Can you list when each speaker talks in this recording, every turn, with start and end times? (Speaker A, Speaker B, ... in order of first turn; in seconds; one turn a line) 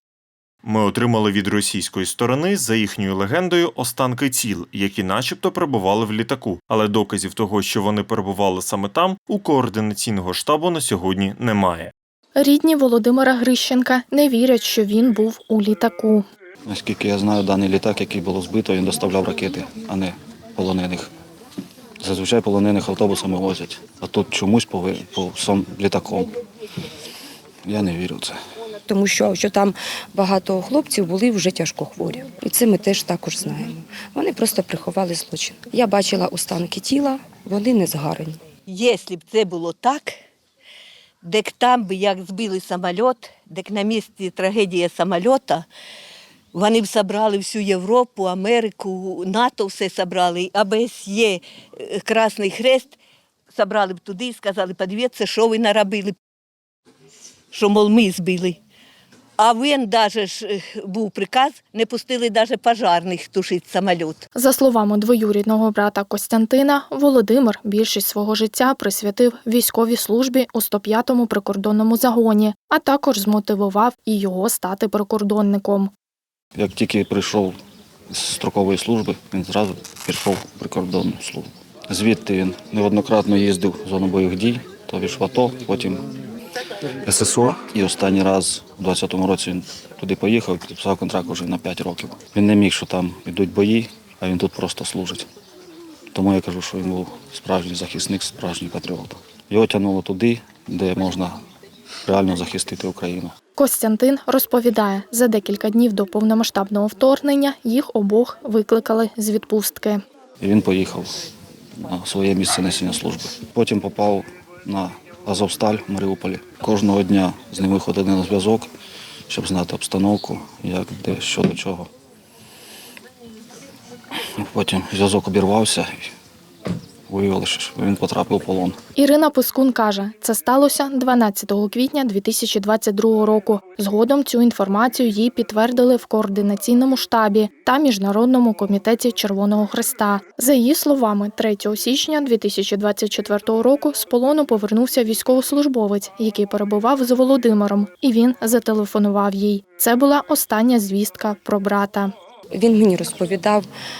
Speaker A: 0.6-11.9
Speaker B: 12.4-16.3
Speaker C: 16.7-21.1
Speaker C: 22.0-26.3
Speaker C: 27.7-28.4
Speaker D: 28.9-38.4
Speaker E: 38.7-40.1
Speaker E: 41.2-45.7
Speaker E: 46.5-53.0
Speaker E: 53.5-56.2
Speaker E: 57.5-58.6
Speaker E: 59.4-64.2
Speaker B: 64.3-75.9
Speaker C: 76.6-77.6
Speaker C: 78.1-86.1
Speaker C: 87.0-95.2
Speaker C: 96.1-101.4
Speaker C: 102.0-103.3
Speaker B: 103.6-110.0
Speaker C: 110.4-111.1
Speaker C: 111.8-118.7
Speaker C: 119.3-121.9
Speaker C: 124.4-126.1
Speaker C: 127.1-128.8
Speaker B: 129.0-152.1
Speaker D: 152.5-153.7